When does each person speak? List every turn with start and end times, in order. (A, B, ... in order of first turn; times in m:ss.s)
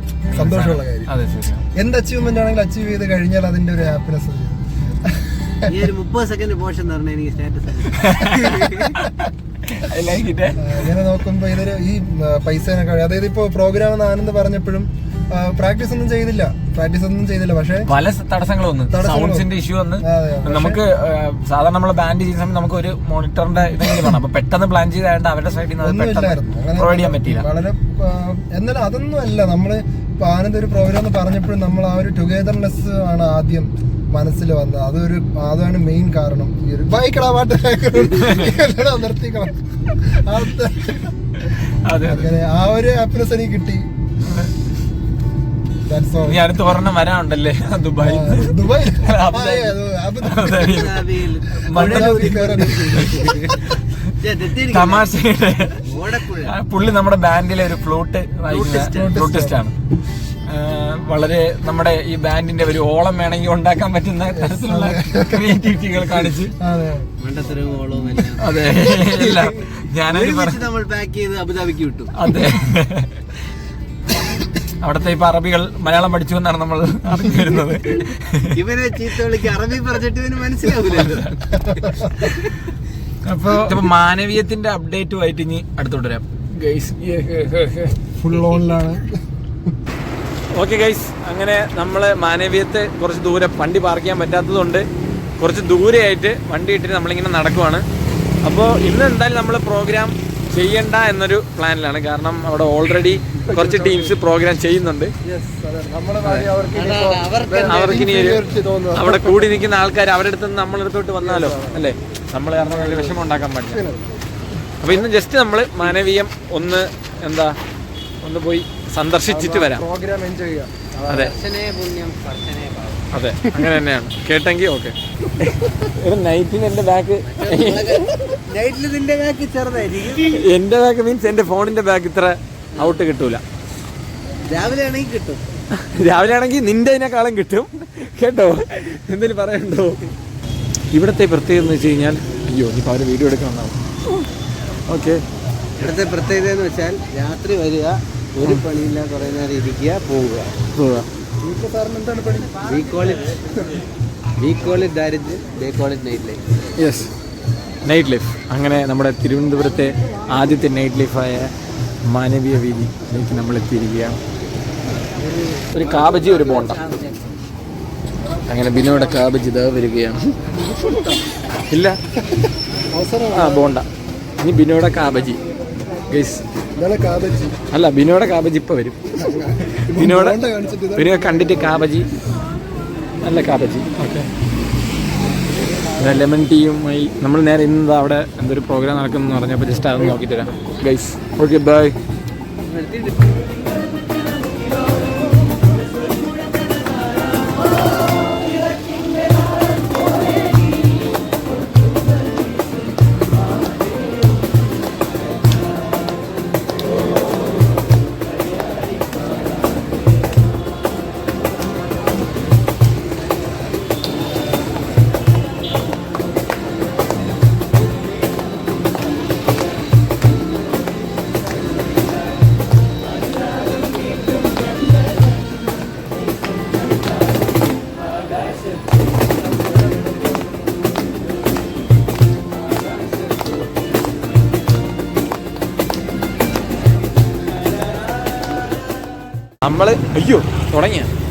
0:00.3-0:01.1 A
0:00.3-0:01.6 B
0:01.8-0:05.8 A
0:05.7-0:08.9 C
0:07.9-0:10.6 B
0:10.6-0:17.9 A
0:17.8-0:27.4 B
0:18.9-0:19.5 A
0:20.0-0:20.8 A
0:25.8-0:41.1 A
0:38.1-0:38.6 B
0:41.5-0:42.4 B
0:42.0-0:43.9 A
0:44.2-0:44.5 B
0:45.8-0:46.4 A
0:46.2-0:54.1 B
0:48.0-0:50.7 A
0:50.5-0:55.2 C
0:51.7-0:53.1 A
0:54.6-0:59.7 B
0:55.8-0:56.5 C
0:58.5-0:59.2 C
0:58.8-0:59.6 A
1:00.4-1:06.5 B
1:04.3-1:07.1 A
1:07.2-1:12.1 C
1:08.4-1:10.7 B
1:12.1-1:13.1 B
1:14.8-1:18.6 B
1:18.5-1:21.5 C
1:20.8-1:22.4 B
1:22.2-1:22.5 C
1:23.2-1:28.0 B
1:23.5-1:23.8 A
1:28.2-1:29.2 A
1:30.5-1:34.8 B
1:35.4-1:37.8 B
1:38.4-1:45.1 B
1:43.4-1:44.2 A
1:45.2-1:49.6 A
1:46.2-1:46.5 B
1:46.7-1:48.1 C
1:47.6-1:48.4 B
1:48.9-1:53.8 B
1:51.2-1:51.9 A
1:52.6-1:54.1 A
1:54.8-1:57.6 B
1:58.2-1:59.8 B
1:59.2-2:01.3 A
2:01.1-2:01.3 B
2:01.1-2:03.0 C
2:03.1-2:08.1 B
2:07.2-2:10.4 C
2:10.2-2:13.4 B
2:12.8-2:13.0 C
2:14.5-2:15.4 C
2:15.7-2:20.0 B
2:20.9-2:23.8 B
2:24.9-2:25.2 B
2:25.8-2:30.5 C
2:30.7-2:31.1 B
2:31.4-2:32.6 A
2:32.6-2:33.4 C
2:34.4-2:36.4 C
2:36.8-2:37.1 B
2:37.8-2:41.5 B
2:42.0-2:44.2 B
2:45.1-2:47.4 C
2:45.7-2:46.8 B
2:48.5-2:50.4 B
2:51.7-2:52.0 B
2:52.3-2:53.8 A
2:53.3-2:53.9 B
2:54.4-2:55.4 B
2:56.1-2:56.4 B
2:56.8-2:57.6 A
2:57.7-2:59.0 B
2:59.2-3:01.9 A
2:59.9-3:00.4 B
3:00.9-3:02.1 B
3:03.2-3:04.3 B
3:06.0-3:11.9 B
3:12.7-3:13.1 C
3:59.6-4:01.1 B